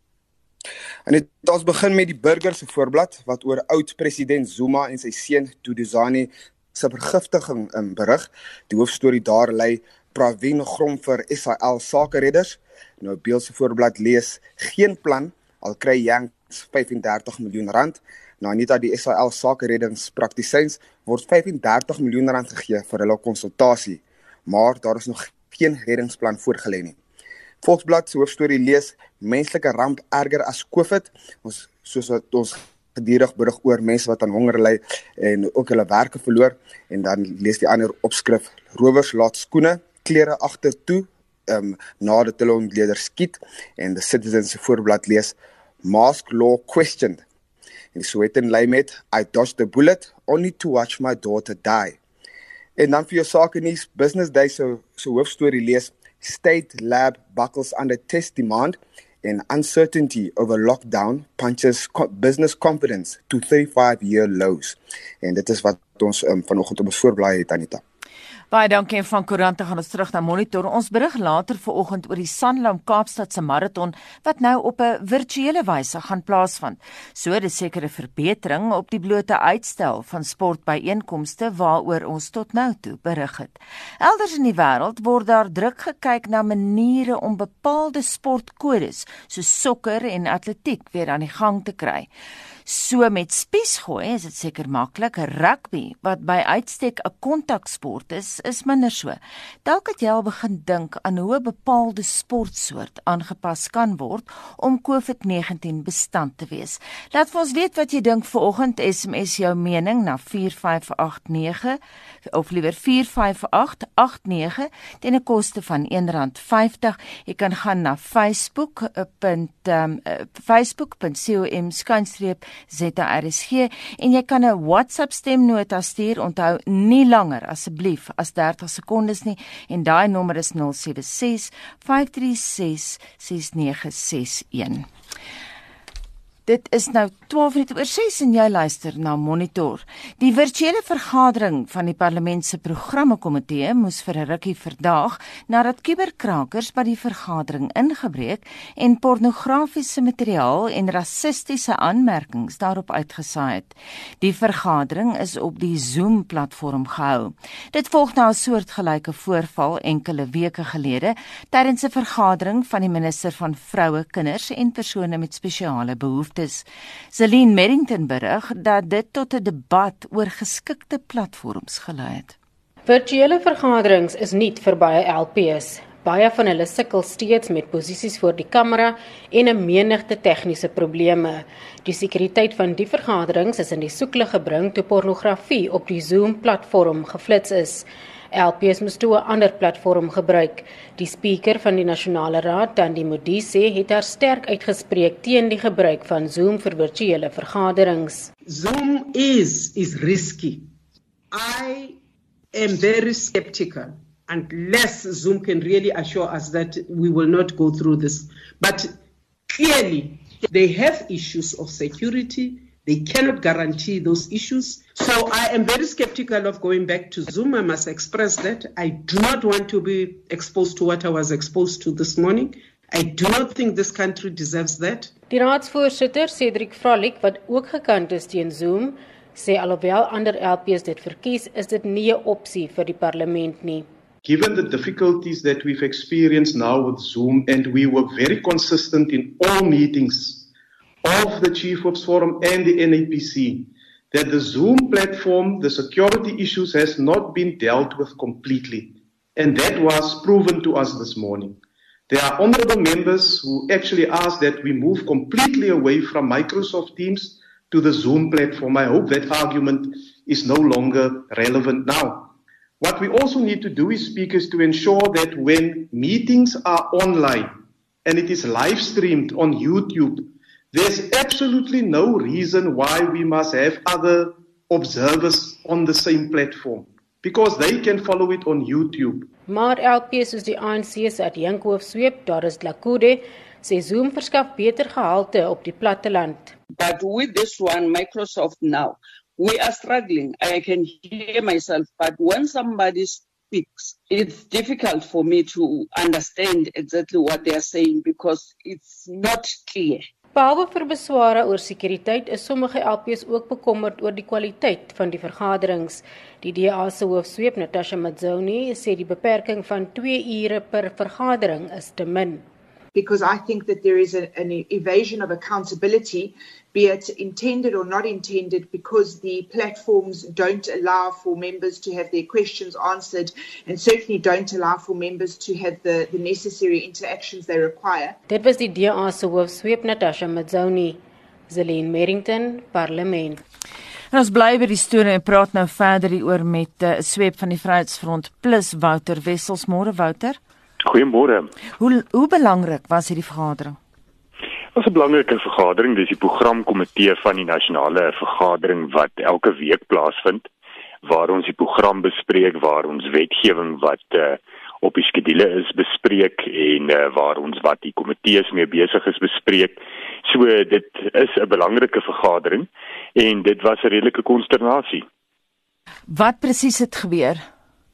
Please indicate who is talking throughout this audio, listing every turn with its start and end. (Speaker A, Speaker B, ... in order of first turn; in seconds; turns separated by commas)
Speaker A: 1.1-27.0, Speaker A: 27.6-47.2, Speaker A: 47.9-52.0, Speaker A: 52.8-67.8, Speaker B: 68.5-92.1, Speaker B: 92.7-134.9, Speaker B: 136.4-172.3, Speaker C: 172.8-198.3, Speaker D: 198.4-200.7, Speaker D: 201.3-202.0, Speaker D: 202.5-209.0, Speaker D: 209.5-225.1, Speaker C: 225.3-233.9, Speaker E: 234.2-240.5, Speaker E: 241.0-279.3, Speaker C: 279.5-286.6, Speaker F: 286.7-300.1, Speaker C: 300.3-312.4, Speaker G: 312.9-328.1, Speaker C: 328.3-333.4, Speaker B: 334.1-340.4, Speaker H: 340.8-341.5, Speaker B: 341.8-343.8, Speaker H: 344.7-350.5, Speaker H: 351.0-365.0, Speaker B: 366.1-367.4